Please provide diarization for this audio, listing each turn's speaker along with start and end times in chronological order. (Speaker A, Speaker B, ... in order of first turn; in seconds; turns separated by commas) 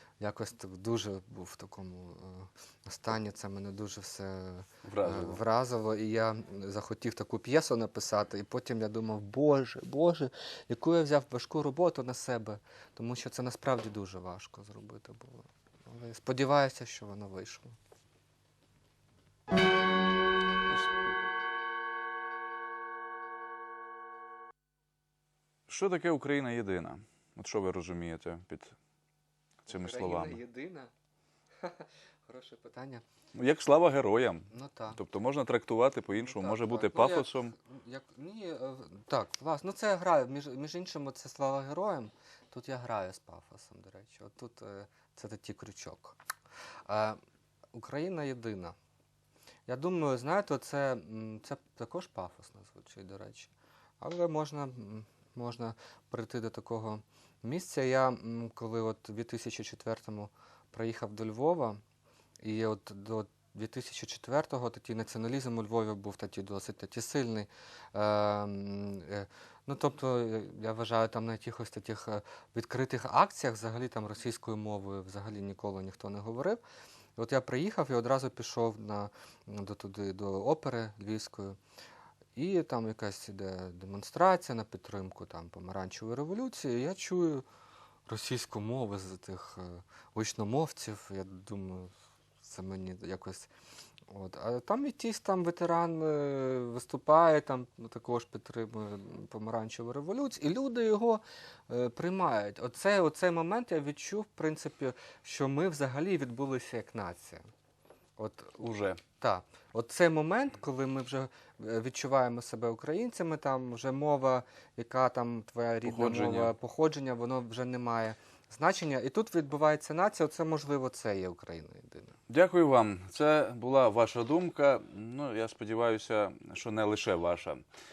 Speaker A: 0.2-17.8, Speaker B: 4.8-5.4, Speaker B: 25.7-28.8, Speaker B: 29.7-30.4, Speaker A: 29.7-30.9, Speaker A: 31.6-33.0, Speaker B: 33.4-37.5, Speaker A: 34.5-35.0, Speaker A: 36.2-46.2, Speaker A: 46.9-47.2, Speaker A: 47.7-48.8, Speaker A: 49.7-61.8, Speaker A: 62.4-76.6, Speaker A: 77.2-81.6, Speaker A: 82.4-87.4, Speaker A: 88.1-93.5, Speaker A: 94.1-107.4, Speaker A: 108.2-108.6, Speaker B: 108.6-109.0, Speaker A: 109.2-122.2, Speaker B: 115.8-116.5, Speaker B: 122.3-127.6